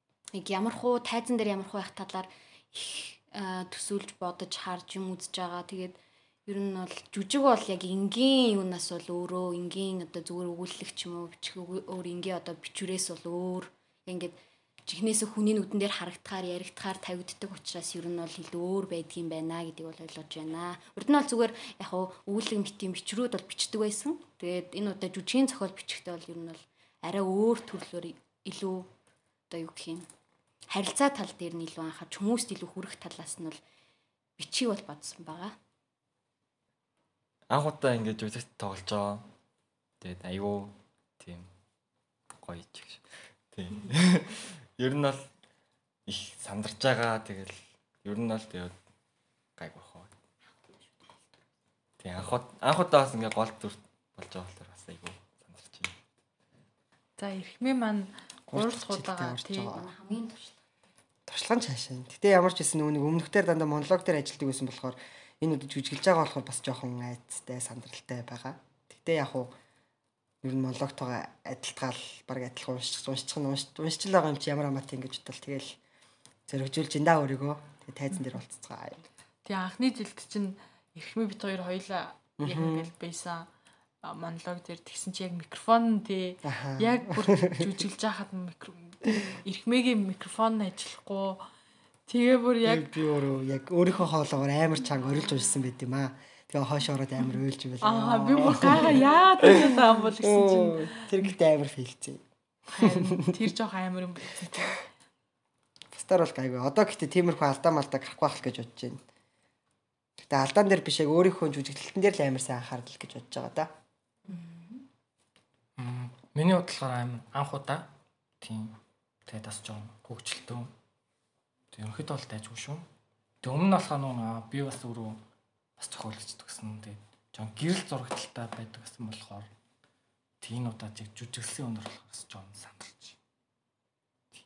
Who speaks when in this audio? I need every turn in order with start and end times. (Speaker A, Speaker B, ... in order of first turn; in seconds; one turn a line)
Speaker A: 0.3-28.9
Speaker A: 29.5-30.1
Speaker A: 30.7-33.6
Speaker A: 34.4-35.6
Speaker B: 37.5-39.3
Speaker B: 40.0-41.5
Speaker B: 42.4-45.3
Speaker B: 46.1-48.8
Speaker B: 49.6-50.1
Speaker A: 50.5-51.1
Speaker B: 52.0-56.0
Speaker C: 57.2-59.8
Speaker D: 58.5-59.9
Speaker A: 59.7-60.5
Speaker D: 61.3-69.5
Speaker D: 70.4-75.8
Speaker D: 76.5-79.0
Speaker C: 79.5-83.5
Speaker D: 82.4-82.9
Speaker C: 84.0-91.4
Speaker D: 86.4-87.7
Speaker C: 92.1-93.0
Speaker D: 92.6-102.2
Speaker C: 97.8-101.0
Speaker C: 102.7-104.8
Speaker D: 102.8-103.5
Speaker D: 105.9-109.0
Speaker D: 110.2-113.8
Speaker A: 114.3-114.8
Speaker E: 115.8-117.9
Speaker E: 118.4-120.7
Speaker E: 121.7-122.9
Speaker E: 123.4-125.2
Speaker E: 125.8-129.5
Speaker E: 130.4-133.2